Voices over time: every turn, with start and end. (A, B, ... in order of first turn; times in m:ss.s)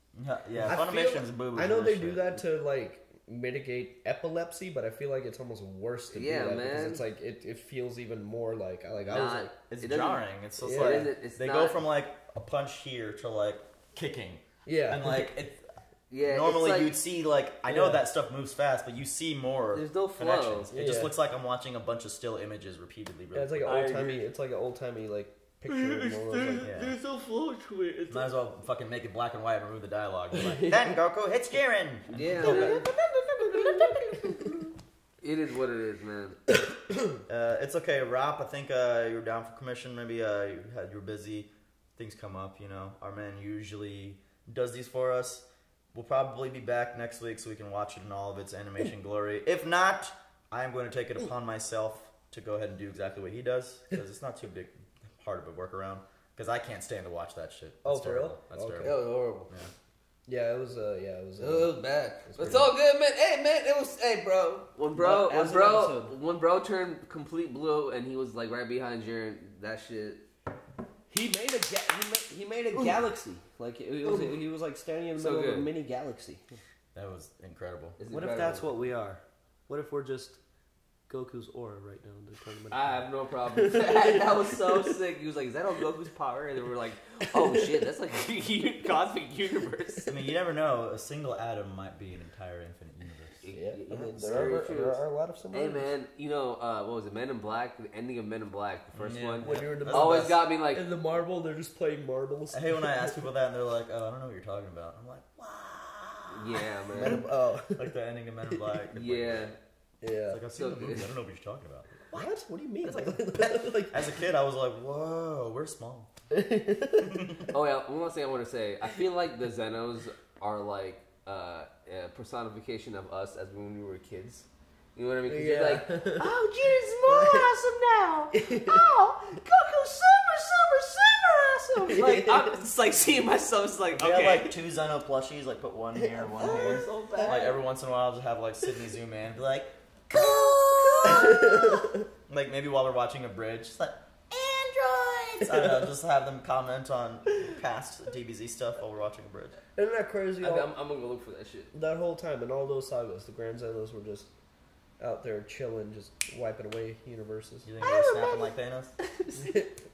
0:00.1-0:02.4 A
0:00.6-0:09.5 B
0:06.1-0:07.0 C
0:09.1-0:11.8 C
0:09.7-0:15.7 A
0:10.6-0:11.1 B
0:14.6-0:15.3 B
0:16.1-0:17.0 C
0:16.2-0:24.2 A
0:17.6-0:18.0 B
0:19.7-0:20.7 C
0:20.7-0:21.1 B
0:23.3-0:26.9 B
0:25.8-0:28.2 C
0:26.6-0:27.0 A
0:28.1-0:34.6 A
0:30.4-0:30.9 B
0:32.1-0:32.9 C
0:32.4-0:34.6 B
0:35.2-0:36.4 C
0:37.3-0:59.7 A
0:57.8-0:59.0 B
0:58.8-0:59.5 C
1:00.3-1:02.8 B
1:01.4-1:10.2 C
1:05.0-1:06.1 B
1:11.1-1:16.5 B
1:14.0-1:14.4 C
1:15.2-1:15.7 C
1:16.9-1:18.0 A
1:18.0-1:18.8 C
1:18.1-1:20.4 B
1:21.1-1:24.2 B
1:22.7-1:30.1 C
1:30.1-1:33.4 A
1:33.4-1:40.8 C
1:33.5-1:35.9 B
1:34.2-1:34.5 A
1:38.9-1:40.3 A
1:39.4-1:43.2 B
1:42.5-1:49.5 A
1:46.3-1:47.2 C
1:46.9-1:47.9 B
1:48.5-1:48.8 B
1:49.0-1:49.6 C
1:50.0-1:50.4 B
1:50.3-1:56.1 A
1:50.5-1:51.1 C
1:52.1-1:54.2 B
1:56.3-1:57.4 B
1:57.5-2:14.5 C
2:05.3-2:06.3 B
2:07.0-2:07.5 B
2:08.3-2:08.8 B
2:11.8-2:12.4 B
2:13.9-2:21.7 A
2:16.0-2:17.6 B
2:16.4-2:17.5 C
2:20.1-2:21.0 C
2:20.9-2:21.9 B
2:22.3-2:29.6 A
2:25.4-2:25.9 B
2:29.8-2:30.7 B
2:30.4-2:31.7 C
2:31.7-2:34.3 B
2:35.0-2:37.7 B
2:37.6-2:38.9 A
2:37.8-2:38.5 C
2:39.0-2:39.6 C
2:39.4-2:39.7 B